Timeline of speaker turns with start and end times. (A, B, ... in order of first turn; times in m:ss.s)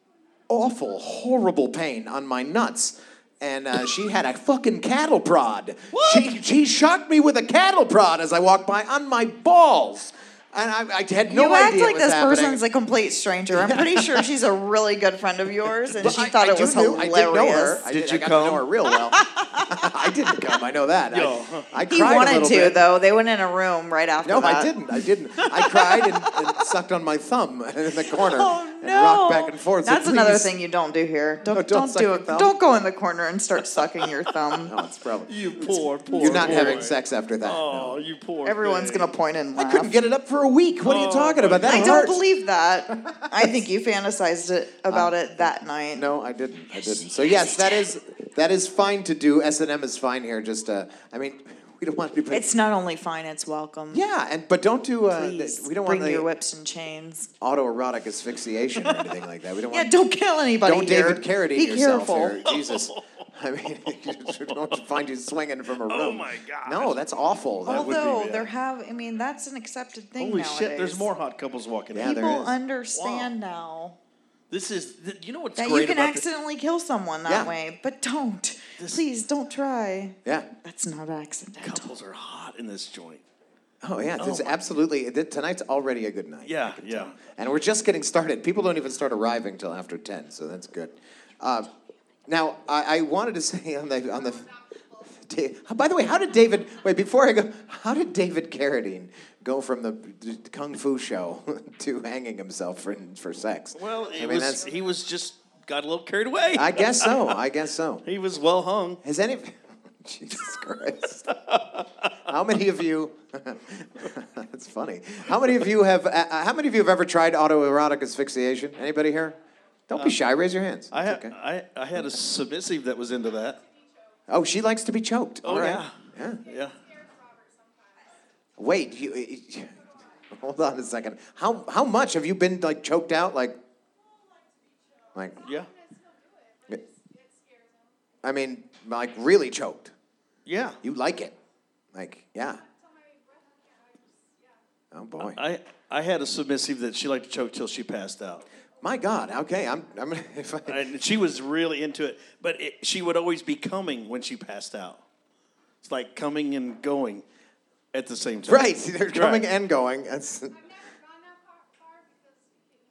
0:00.5-0:12.6 A
0:05.9-0:06.3 B
0:11.3-0:17.8 C
0:13.5-0:14.3 A
0:16.0-0:22.8 A
0:17.9-0:18.6 B
0:19.1-0:19.8 C
0:21.1-0:21.7 B
0:21.9-0:24.8 C
0:24.2-0:30.5 A
0:25.4-0:26.4 C
0:28.0-0:34.7 C
0:31.4-0:32.5 A
0:34.5-0:38.0 A
0:35.3-0:39.1 B
0:36.2-0:36.5 C
0:38.4-0:40.0 C
0:39.6-0:42.2 A
0:40.8-0:42.0 B
0:41.6-0:46.0 C
0:43.0-0:43.4 A
0:45.9-0:52.5 A
0:47.1-0:47.8 C
0:52.3-0:54.0 C
0:53.9-0:56.3 A
0:55.1-0:57.3 C
0:57.4-0:59.9 A
0:58.8-0:59.1 B
0:59.7-1:02.4 C
1:00.6-1:08.0 A
1:02.4-1:03.2 B
1:03.9-1:04.8 B
1:05.8-1:07.0 B
1:07.6-1:08.5 B
1:07.7-1:11.1 C
1:10.2-1:12.2 B
1:11.9-1:12.5 A
1:12.0-1:14.0 C
1:12.9-1:13.3 B
1:14.5-1:16.2 B
1:15.6-1:21.9 C
1:17.2-1:17.5 A
1:21.6-1:23.2 B
1:23.8-1:31.7 A
1:24.2-1:24.6 B
1:26.4-1:27.1 B
1:32.3-1:34.5 A
1:35.0-1:44.6 A
1:43.8-1:47.4 B
1:46.5-1:48.0 A
1:48.0-1:49.0 B
1:49.0-1:51.2 A
1:51.3-1:52.1 B
1:52.3-1:59.4 A
1:59.9-2:01.3 A
2:00.9-2:03.6 B
2:04.3-2:06.4 A
2:05.4-2:06.7 B
2:08.6-2:09.8 A
2:10.3-2:13.6 A
2:15.1-2:15.4 A
2:15.4-2:15.7 B
2:18.2-2:19.9 A
2:20.4-2:20.8 B
2:20.8-2:21.3 A
2:21.9-2:22.6 A
2:24.9-2:25.4 A
2:25.2-2:28.4 B
2:28.8-2:30.8 A
2:30.6-2:35.0 B
2:35.8-2:37.2 B
2:37.9-2:39.5 B
2:38.4-2:40.6 A